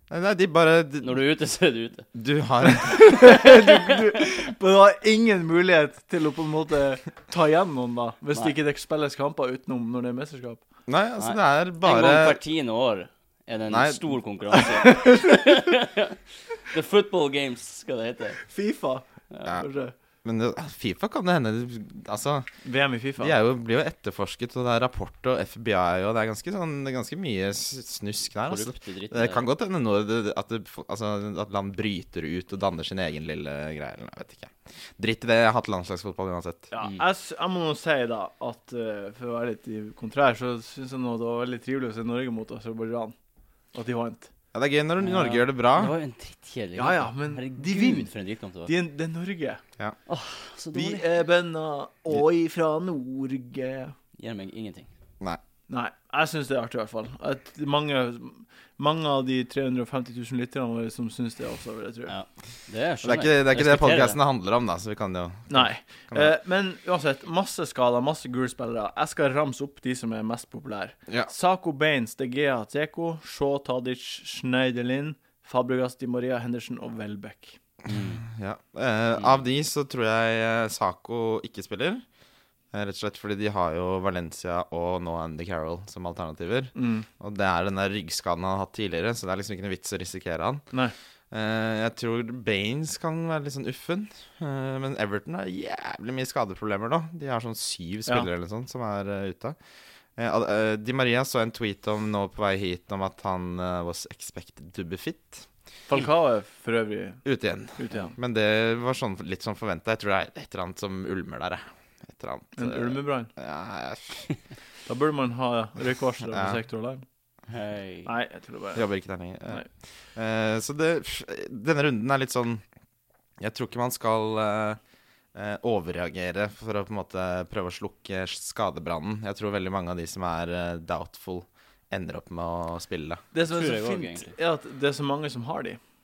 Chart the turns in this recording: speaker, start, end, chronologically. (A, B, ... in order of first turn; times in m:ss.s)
0:00.1-0:01.2 A
0:01.0-0:02.0 B
0:02.1-0:03.4 A
0:02.8-0:10.6 C
0:03.1-0:04.0 B
0:10.9-0:12.4 A
0:11.2-0:18.4 B
0:13.7-0:14.0 A
0:14.8-0:15.3 C
0:18.4-0:19.9 C
0:20.2-0:22.5 A
0:22.6-0:23.4 C
0:23.2-0:36.7 A
0:28.5-0:29.4 B
0:36.7-0:43.1 C
0:43.7-0:44.3 C
0:44.5-0:45.9 A
0:45.0-0:48.7 B
0:46.8-0:48.1 C
0:48.6-0:49.6 C
0:50.1-0:51.0 B
0:50.7-0:53.9 C
0:54.2-0:54.9 B
0:55.7-1:02.1 C
1:02.1-1:04.2 B
1:03.0-1:06.3 A
1:05.5-1:17.6 C
1:17.8-1:18.2 B
1:17.9-1:22.0 A
1:22.7-1:30.6 A
1:26.8-1:27.1 C
1:31.3-1:39.6 A
1:40.2-1:45.4 A
1:45.9-1:47.2 C
1:47.2-1:54.2 A
1:47.8-1:48.1 C
1:52.6-1:53.3 C
1:54.8-1:57.0 C
1:56.3-1:56.6 A
1:57.5-1:58.1 B
1:58.0-1:58.8 C
1:58.7-2:02.6 A
2:03.4-2:04.8 A
2:05.3-2:13.2 A
2:13.3-2:15.8 C
2:13.5-2:14.3 B